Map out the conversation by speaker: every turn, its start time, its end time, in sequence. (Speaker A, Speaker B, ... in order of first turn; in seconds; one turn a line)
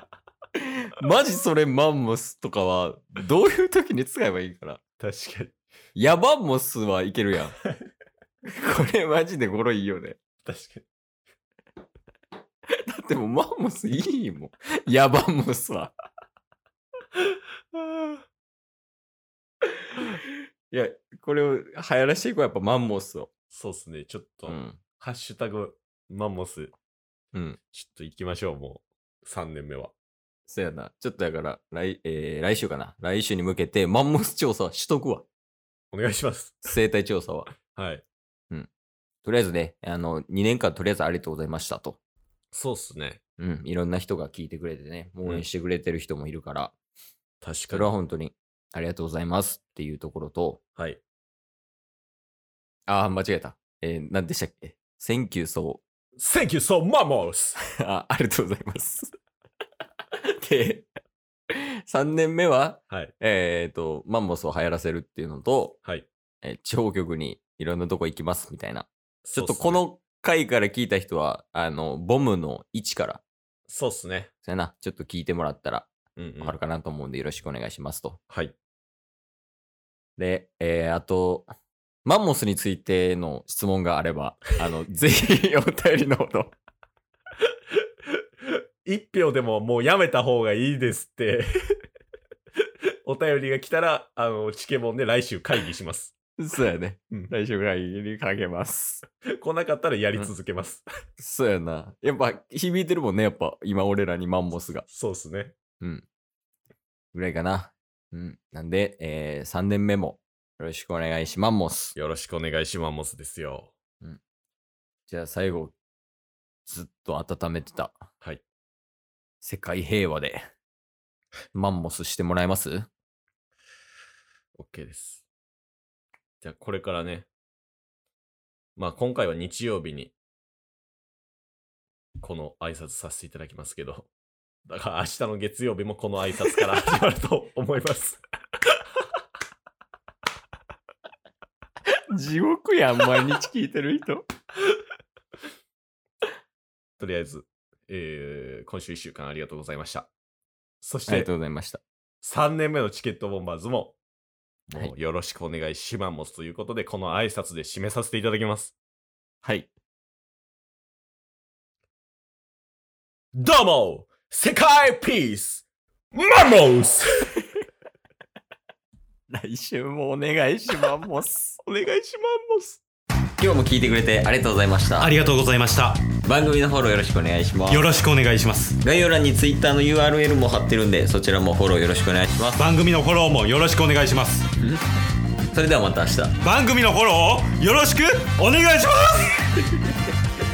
Speaker A: 0.6-4.8
Speaker B: 5.0-5.5
Speaker A: 6.0-7.6
Speaker A: 8.5-10.2
Speaker B: 10.5-10.8
Speaker A: 12.9-15.9
Speaker B: 17.8-18.2
Speaker A: 19.9-20.2
Speaker A: 20.7-23.3
Speaker B: 23.5-26.7
Speaker A: 24.5-24.8
Speaker B: 27.7-29.9
Speaker A: 30.5-35.3
Speaker B: 35.9-36.6
Speaker A: 36.6-37.5
Speaker B: 37.7-38.0
Speaker A: 39.2-42.0
Speaker B: 42.5-43.2
Speaker A: 43.4-46.7
Speaker B: 47.4-47.9
Speaker A: 47.7-50.6
Speaker A: 52.9-55.8
Speaker B: 56.2-57.6
Speaker A: 57.8-59.1
Speaker A: 60.2-60.9
Speaker A: 61.5-65.8
Speaker A: 66.4-73.2
Speaker B: 69.2-69.8
Speaker B: 73.7-74.3
Speaker A: 74.5-75.9
Speaker B: 76.2-76.6
Speaker A: 76.4-78.2
Speaker B: 78.3-78.6
Speaker A: 80.2-81.5
Speaker A: 82.0-86.5
Speaker B: 88.8-91.5
Speaker B: 93.0-96.2
Speaker A: 96.4-99.0
Speaker B: 99.4-100.9
Speaker A: 101.2-104.9
Speaker B: 104.9-105.5
Speaker A: 105.8-106.1
Speaker A: 107.1-112.0
Speaker B: 112.0-113.7
Speaker A: 115.1-115.8
Speaker A: 116.7-118.1
Speaker A: 119.4-120.5
Speaker A: 121.5-122.9
Speaker B: 124.5-125.3
Speaker B: 126.4-127.3
Speaker B: 128.8-130.1
Speaker B: 132.2-134.1
Speaker B: 134.7-138.2
Speaker A: 142.1-144.2
Speaker B: 147.0-150.1
Speaker B: 150.8-151.3
Speaker A: 151.1-151.8
Speaker B: 152.2-154.0
Speaker A: 154.7-154.9
Speaker B: 154.8-158.8
Speaker A: 159.4-159.7
Speaker B: 163.3-167.3
Speaker A: 169.3-171.6
Speaker B: 171.6-172.8
Speaker A: 173.4-175.2
Speaker C: 175.0-176.0
Speaker A: 176.2-177.9
Speaker C: 177.7-178.8
Speaker A: 178.8-182.7
Speaker C: 182.6-184.4
Speaker A: 185.5-186.4
Speaker C: 186.4-189.3